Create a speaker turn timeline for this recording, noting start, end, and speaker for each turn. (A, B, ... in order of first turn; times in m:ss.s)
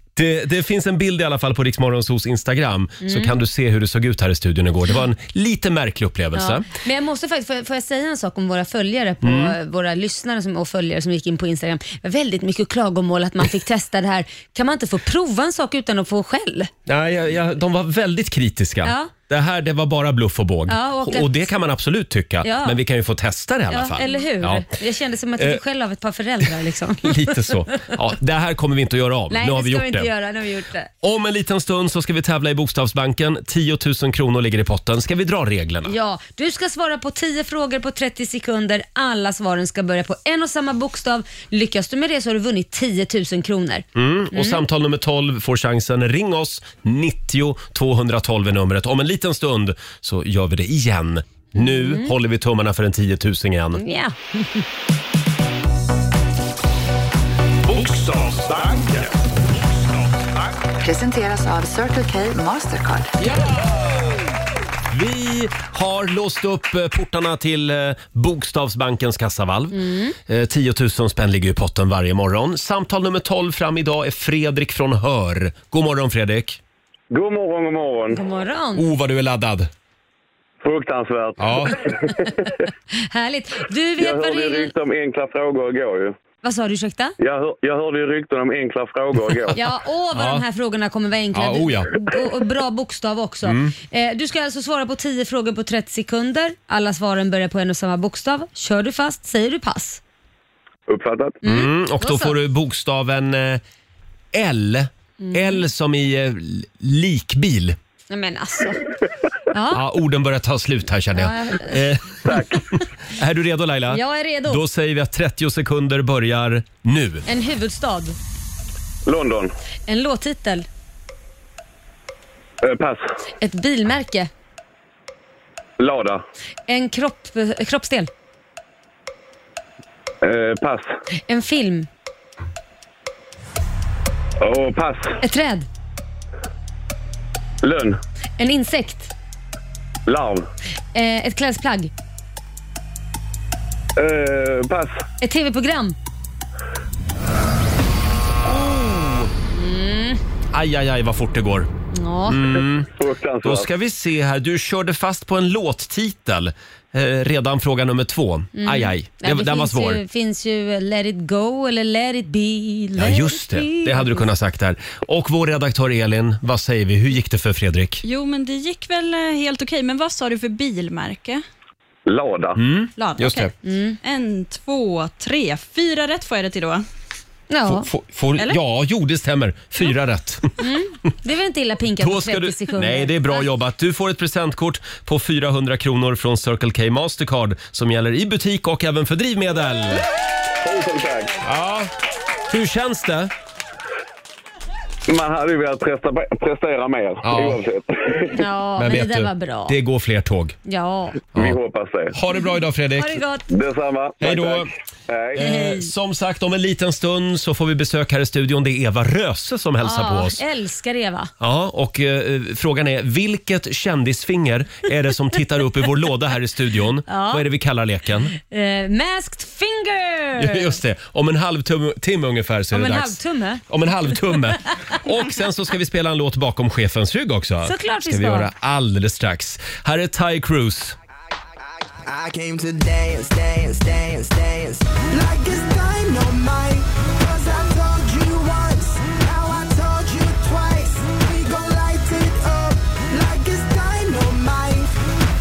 0:00.2-0:06.7 A
0:03.0-0:03.3 B
0:06.4-0:16.7 B
0:09.2-0:09.6 A
0:16.9-0:24.7 A
0:18.8-0:19.1 B
0:20.7-0:21.5 B
0:22.4-0:22.8 B
0:23.7-0:27.8 B
0:27.0-0:30.1 A
0:29.3-0:30.9 B
0:31.0-0:35.9 A
0:35.8-0:44.6 B
0:44.0-0:53.8 A
0:51.6-0:52.1 B
0:53.8-0:54.6 B
0:57.7-0:59.1 C
0:59.6-1:00.6 C
1:00.8-1:03.1 D
1:03.2-1:03.7 A
1:04.9-1:16.6 A
1:09.7-1:10.2 B
1:17.1-1:18.2 E
1:18.1-1:18.9 B
1:18.8-1:19.7 A
1:20.6-1:22.6 E
1:21.4-1:21.8 A
1:22.9-1:24.7 B
1:24.0-1:26.2 E
1:26.4-1:27.2 B
1:27.2-1:29.6 E
1:29.3-1:29.6 A
1:29.5-1:40.0 B
1:30.1-1:30.4 A
1:31.3-1:31.9 A
1:33.4-1:33.7 A
1:40.9-1:41.4 E
1:41.4-1:42.4 B
1:41.4-1:43.6 A
1:44.3-1:47.8 A
1:45.2-1:45.6 B
1:48.1-1:48.8 B
1:49.5-1:49.8 B
1:49.7-1:52.4 A
1:51.2-1:51.8 B
1:52.3-1:52.6 E
1:53.1-1:57.3 A
1:53.9-1:54.6 B
1:57.3-1:58.2 B
1:59.1-1:59.5 E
1:59.9-2:00.7 B
2:02.6-2:03.0 E
2:03.4-2:04.3 B
2:05.8-2:06.2 E
2:06.7-2:08.1 B
2:10.2-2:10.9 E
2:11.3-2:11.9 B
2:14.4-2:15.2 E
2:15.2-2:15.7 B
2:17.6-2:18.0 E
2:18.4-2:19.1 B
2:20.1-2:20.5 E
2:20.9-2:21.9 B
2:24.0-2:25.0 E
2:25.2-2:26.0 B
2:28.5-2:29.3 A
2:29.5-2:30.2 B
2:30.5-2:31.7 A
2:31.9-2:32.4 B
2:32.3-2:32.9 A
2:32.6-2:33.7 E
2:33.4-2:40.0 A
2:38.6-2:44.3 B
2:43.0-2:48.0 A
2:48.0-2:51.4 F
2:52.1-2:52.6 E
2:52.6-2:53.5 A
2:53.0-2:53.5 F
2:53.6-2:54.0 B
2:54.0-2:56.9 F
2:57.5-2:57.9 B
2:57.7-3:00.6 A
3:00.6-3:03.4 B
3:02.0-3:10.1 A
3:10.6-3:11.4 E
3:11.4-3:11.9 A
3:12.5-3:13.3 A
3:15.1-3:18.4 E
3:17.2-3:17.6 A
3:18.3-3:19.8 B
3:18.8-3:20.6 A
3:20.7-3:21.2 B
3:21.4-3:22.2 E
3:22.1-3:23.2 A
3:23.0-3:23.5 B
3:23.5-3:25.4 E
3:24.2-3:24.7 A
3:25.4-3:30.4 A
3:25.4-3:25.9 B
3:29.8-3:31.3 B
3:31.4-3:38.3 A
3:37.1-3:37.4 B
3:38.4-3:40.8 B
3:40.4-3:51.0 A
3:42.7-3:43.6 B
3:47.6-3:48.5 B
3:52.0-4:04.9 G